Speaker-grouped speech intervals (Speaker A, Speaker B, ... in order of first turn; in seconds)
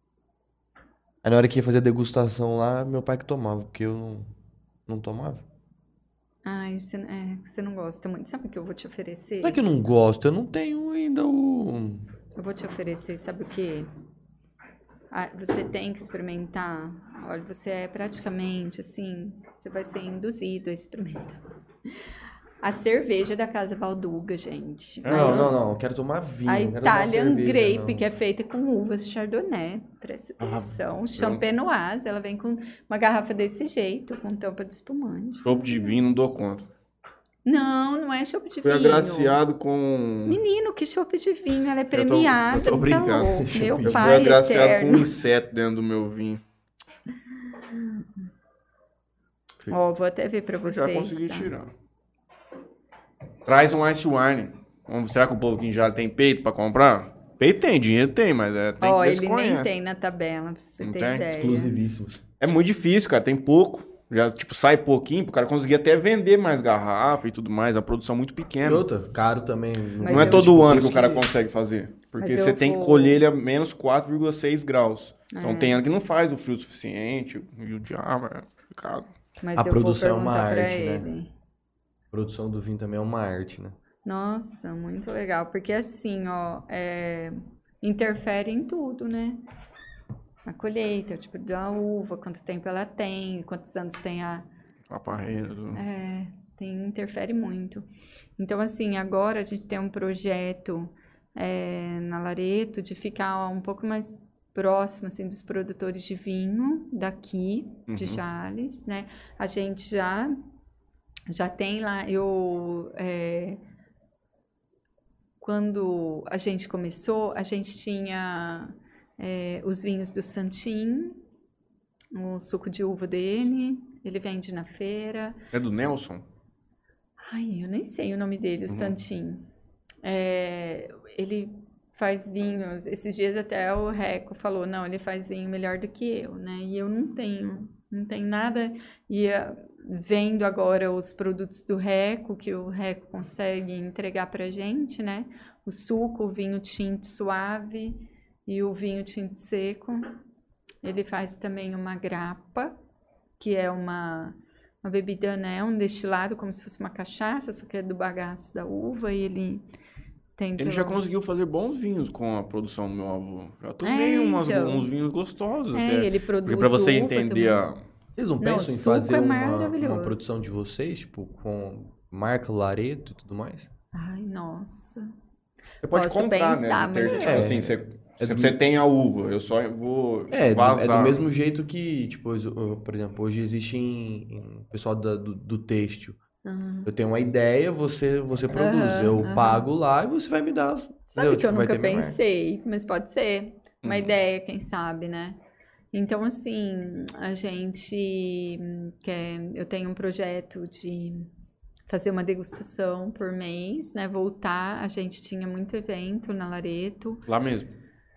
Speaker A: 1.2-4.3, 4.9-5.4, 9.4-12.1, 25.1-28.0, 43.4-44.2, 61.3-62.2, 68.6-71.2, 79.5-81.1, 82.1-83.8, 168.1-173.7, 177.0-178.6, 180.3-186.2, 186.8-192.2
Speaker B: 6.4-9.6, 12.3-13.9, 15.1-21.4, 22.6-25.5, 26.4-36.0, 37.4-39.4, 40.3-45.1, 47.7-48.1, 49.7-51.5, 58.8-61.7, 70.0-70.6, 72.2-73.2, 75.3-75.8, 79.4-81.3, 84.0-89.4, 90.5-94.5, 95.7-97.9, 98.4-110.4, 111.3-113.6, 115.4-121.2, 122.1-125.4, 127.2-129.4, 130.0-150.1, 150.8-152.7, 153.4-159.6, 160.4-161.0, 163.8-164.9, 165.7-167.7, 168.4-170.2, 173.9-175.1, 175.9-177.5, 186.4-186.9, 188.5-189.7, 191.1-195.4, 195.9-201.3, 201.9-207.2
Speaker C: 25.0-25.5, 30.4-31.4, 35.4-36.7, 38.6-40.4, 41.9-46.4, 50.6-51.7, 53.5-59.7, 60.8-61.2, 62.4-68.8, 70.0-79.1, 94.9-95.8, 107.9-108.2, 125.5-126.2, 128.7-128.9, 160.6-167.8, 175.8-181.2, 193.8-194.1, 207.2-207.7